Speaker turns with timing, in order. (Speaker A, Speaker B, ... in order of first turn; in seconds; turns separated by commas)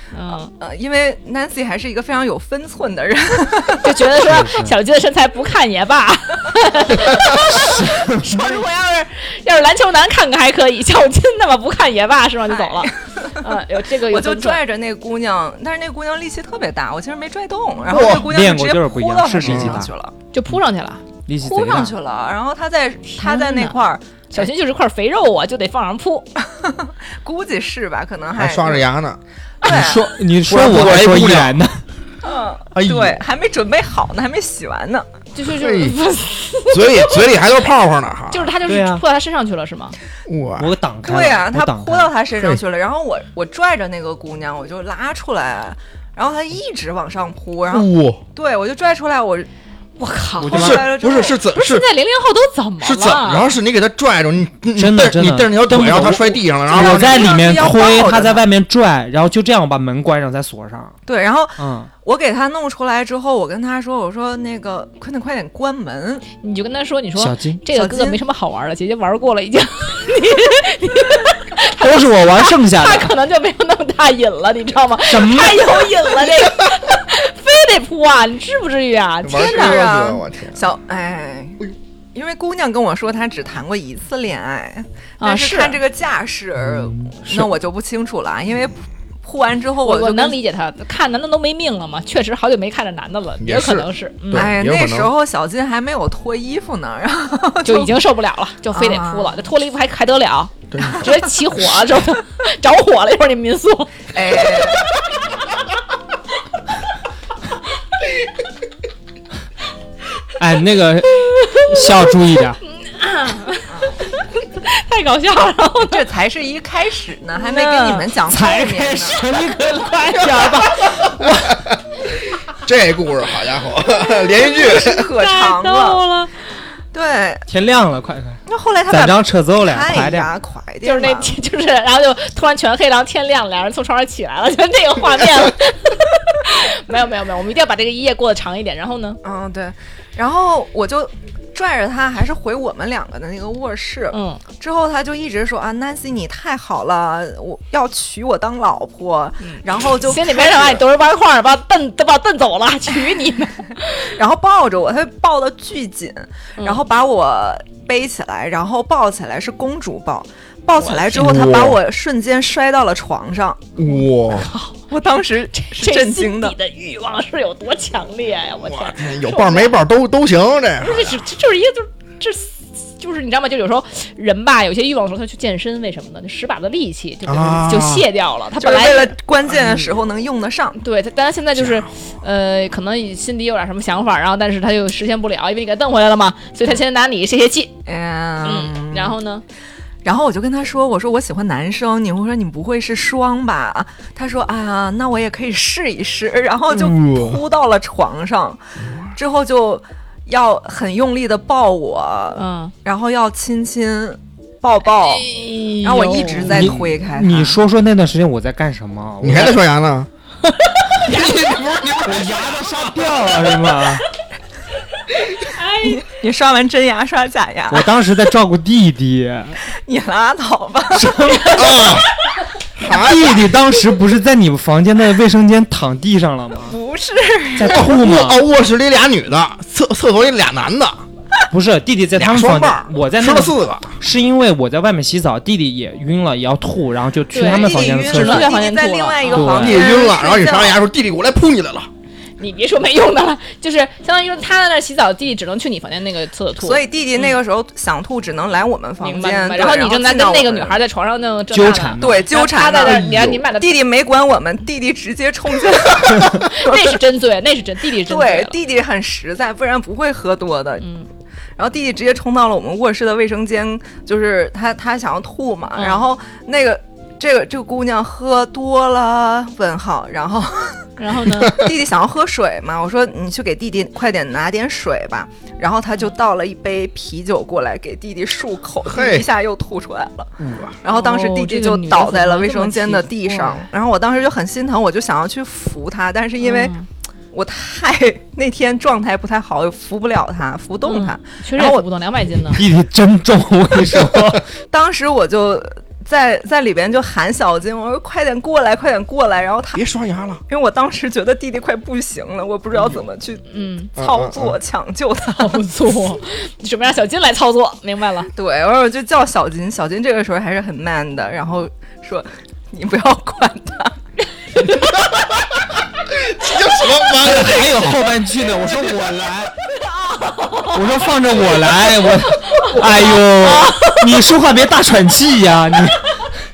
Speaker A: 0.1-0.5, Speaker B: 0.5-4.0, Speaker A: 3.8-14.6, Speaker C: 4.2-4.7, Speaker C: 7.3-8.6, Speaker B: 12.5-13.5, Speaker B: 14.1-20.1, Speaker D: 17.9-18.3, Speaker C: 17.9-19.9, Speaker D: 19.4-19.8, Speaker A: 20.3-21.0, Speaker C: 21.2-21.9, Speaker B: 21.4-24.5, Speaker A: 23.2-23.8, Speaker A: 24.3-26.3, Speaker B: 26.5-28.9, Speaker D: 28.4-29.2, Speaker B: 29.6-30.1, Speaker C: 29.6-31.8, Speaker D: 30.5-31.6, Speaker B: 32.2-35.1, Speaker D: 32.7-33.2, Speaker A: 35.3-37.3, Speaker D: 35.5-36.0, Speaker D: 36.7-38.5, Speaker A: 38.3-40.0, Speaker C: 38.7-39.0, Speaker D: 40.2-40.7, Speaker C: 40.6-42.1, Speaker B: 41.0-49.5, Speaker D: 42.4-42.6, Speaker D: 47.7-48.2, Speaker A: 50.0-50.9, Speaker C: 50.4-50.8, Speaker B: 50.5-51.4, Speaker D: 50.5-51.9, Speaker A: 51.5-53.5, Speaker D: 52.8-57.3, Speaker C: 54.8-61.0, Speaker B: 56.7-58.4, Speaker B: 61.0-66.2, Speaker C: 61.6-61.9, Speaker A: 66.4-79.8, Speaker C: 67.2-67.6, Speaker B: 67.7-68.2, Speaker C: 71.8-73.1, Speaker C: 75.1-75.9, Speaker D: 79.2-80.6, Speaker B: 79.3-90.4, Speaker A: 85.2-85.8, Speaker C: 86.6-87.5, Speaker A: 89.8-94.5, Speaker D: 93.4-95.1, Speaker B: 94.3-98.0, Speaker A: 97.6-104.1, Speaker B: 98.7-99.3, Speaker D: 100.7-101.2, Speaker B: 104.1-104.9, Speaker C: 110.4-112.6, Speaker A: 111.3-112.0, Speaker A: 112.7-116.0, Speaker B: 115.8-119.2, Speaker A: 117.4-118.1, Speaker C: 118.3-121.5, Speaker A: 120.2-120.5, Speaker D: 122.5-125.1, Speaker B: 124.3-126.0, Speaker A: 124.8-126.3, Speaker B: 126.9-127.4, Speaker C: 127.5-130.3, Speaker B: 128.5-131.3, Speaker A: 130.8-139.2, Speaker B: 139.2-150.8, Speaker A: 144.1-144.4, Speaker A: 149.4-154.1, Speaker B: 154.1-163.7, Speaker A: 160.8-161.2, Speaker D: 161.1-161.8, Speaker D: 163.8-164.5, Speaker A: 163.9-164.8, Speaker B: 164.9-166.6, Speaker A: 165.5-169.8, Speaker D: 168.6-171.2, Speaker A: 170.8-179.2, Speaker D: 177.2-178.1, Speaker B: 178.6-180.8, Speaker A: 180.8-187.8, Speaker D: 181.6-181.8, Speaker B: 187.8-189.2, Speaker A: 188.4-189.4, Speaker B: 190.0-198.6, Speaker D: 196.7-197.4, Speaker B: 199.1-205.2, Speaker A: 202.3-202.7, Speaker A: 205.1-206.6, Speaker B: 205.8-207.6, Speaker C: 206.5-209.6, Speaker D: 209.2-210.1, Speaker D: 211.0-212.8, Speaker C: 212.0-214.0, Speaker A: 215.5-216.0, Speaker B: 215.8-217.9, Speaker C: 217.7-219.6, Speaker B: 219.7-221.6, Speaker C: 220.9-221.9, Speaker D: 221.5-222.1, Speaker D: 222.8-223.5, Speaker C: 222.9-226.8, Speaker B: 226.6-227.8, Speaker C: 227.6-228.4, Speaker D: 227.6-231.0, Speaker C: 231.5-238.5, Speaker D: 232.2-234.0, Speaker A: 237.3-239.6, Speaker B: 237.4-240.8, Speaker C: 239.3-239.8, Speaker D: 239.5-241.9, Speaker A: 242.4-247.3, Speaker B: 246.6-250.8, Speaker A: 249.0-253.8, Speaker C: 251.5-252.3, Speaker B: 252.0-257.0, Speaker A: 256.3-258.6, Speaker B: 258.0-260.9, Speaker A: 260.8-261.1, Speaker B: 261.6-270.9, Speaker A: 265.7-266.1, Speaker A: 271.0-271.6, Speaker B: 271.5-286.7, Speaker D: 278.8-279.3, Speaker D: 280.4-280.8, Speaker A: 280.9-283.7, Speaker A: 286.4-286.9, Speaker B: 287.3-291.9, Speaker A: 290.8-292.6, Speaker C: 292.5-294.5, Speaker B: 294.7-299.8, Speaker D: 299.7-300.4, Speaker B: 300.5-303.4, Speaker A: 303.5-303.9, Speaker B: 303.9-305.6, Speaker D: 304.0-304.6, Speaker A: 305.4-308.3, Speaker B: 308.4-314.0, Speaker A: 314.6-315.0, Speaker D: 316.1-318.0, Speaker C: 317.2-319.5, Speaker A: 320.2-320.8, Speaker C: 320.7-326.2, Speaker A: 322.5-322.8, Speaker A: 323.6-324.0